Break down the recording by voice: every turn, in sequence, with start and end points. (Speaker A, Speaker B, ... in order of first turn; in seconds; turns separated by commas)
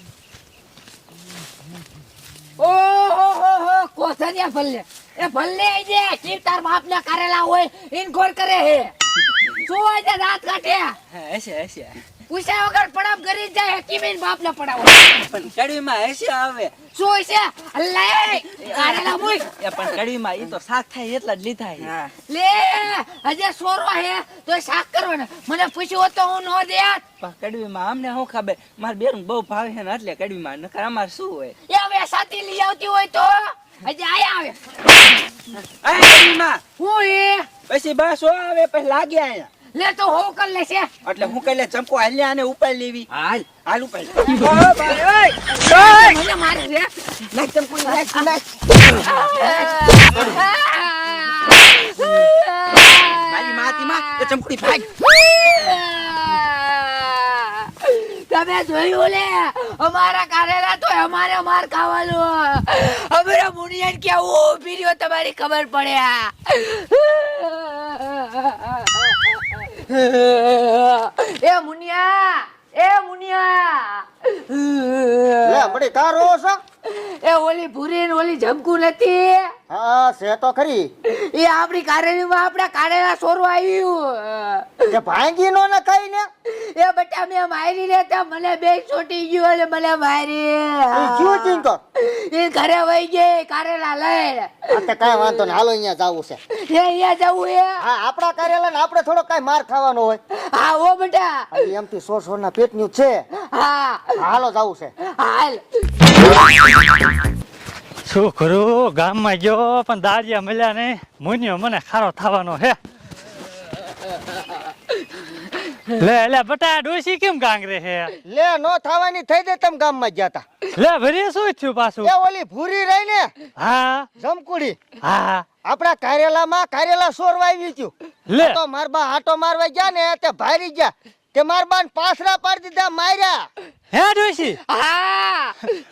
Speaker A: 2.6-8.9, Speaker A: 9.6-11.0, Speaker B: 11.1-12.0, Speaker A: 12.3-15.2, Speaker B: 15.1-16.7, Speaker A: 16.9-19.5, Speaker B: 18.5-22.1, Speaker A: 22.3-27.0, Speaker B: 27.2-31.6, Speaker A: 31.7-34.7, Speaker B: 35.5-36.6, Speaker A: 36.8-37.5, Speaker B: 37.7-39.5, Speaker A: 39.7-40.9, Speaker B: 41.0-43.1, Speaker C: 43.1-43.5, Speaker B: 43.6-46.2, Speaker C: 44.2-45.0, Speaker A: 45.6-47.1, Speaker B: 47.3-48.2, Speaker C: 47.5-48.4, Speaker A: 48.9-54.3, Speaker B: 53.1-54.9, Speaker A: 54.9-75.8, Speaker D: 75.4-76.6, Speaker A: 76.9-79.5, Speaker D: 79.7-80.9, Speaker A: 81.1-84.9, Speaker D: 84.9-86.3, Speaker A: 86.5-95.5, Speaker D: 90.9-91.8, Speaker D: 94.7-96.4, Speaker A: 96.5-97.8, Speaker D: 97.8-100.2, Speaker A: 100.4-101.5, Speaker D: 101.5-103.2, Speaker A: 103.4-104.2, Speaker D: 104.2-104.9, Speaker A: 105.1-106.1, Speaker E: 108.1-112.8, Speaker B: 112.1-112.7, Speaker E: 116.0-118.1, Speaker D: 118.3-120.4, Speaker E: 120.8-122.1, Speaker D: 122.0-123.3, Speaker B: 123.6-124.0, Speaker D: 124.2-124.8, Speaker B: 125.1-125.4, Speaker D: 125.7-133.5, Speaker E: 128.3-128.6, Speaker E: 133.9-134.6, Speaker A: 134.7-135.6